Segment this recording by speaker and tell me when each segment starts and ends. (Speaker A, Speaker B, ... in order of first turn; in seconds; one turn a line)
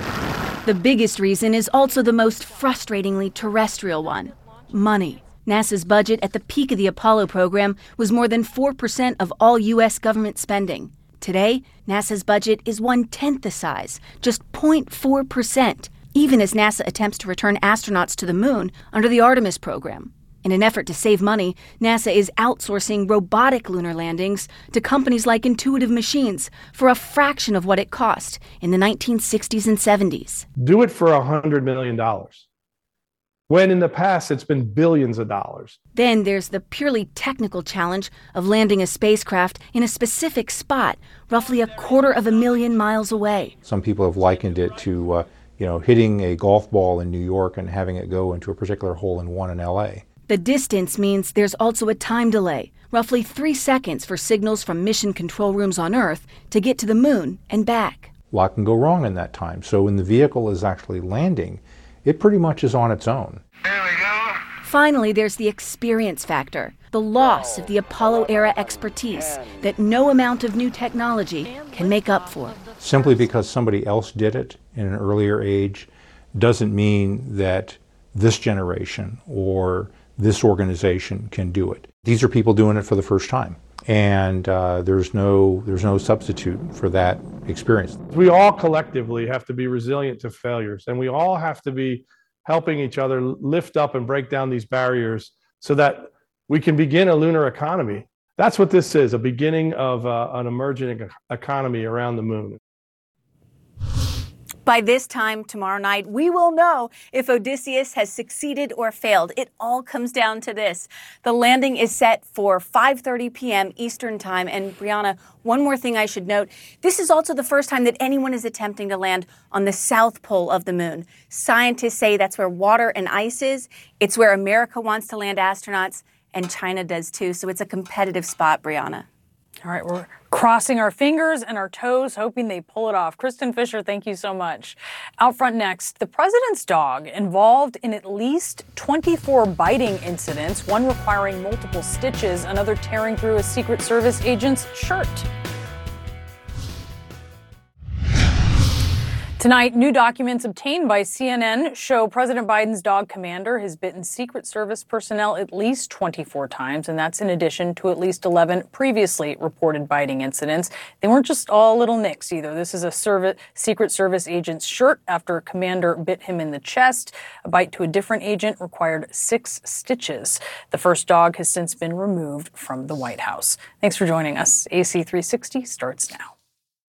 Speaker A: 0.7-30.5
Speaker B: 30.6-32.5
Speaker B: 33.5-35.8
Speaker A: 36.0-43.5
Speaker C: 43.6-50.0
Speaker A: 50.3-58.1
Speaker C: 58.3-63.4
Speaker A: 64.6-72.6
Speaker C: 72.8-88.0
Speaker B: 88.1-102.6
Speaker A: 104.7-129.1
Speaker D: 129.7-145.3
Speaker D: 149.4-176.3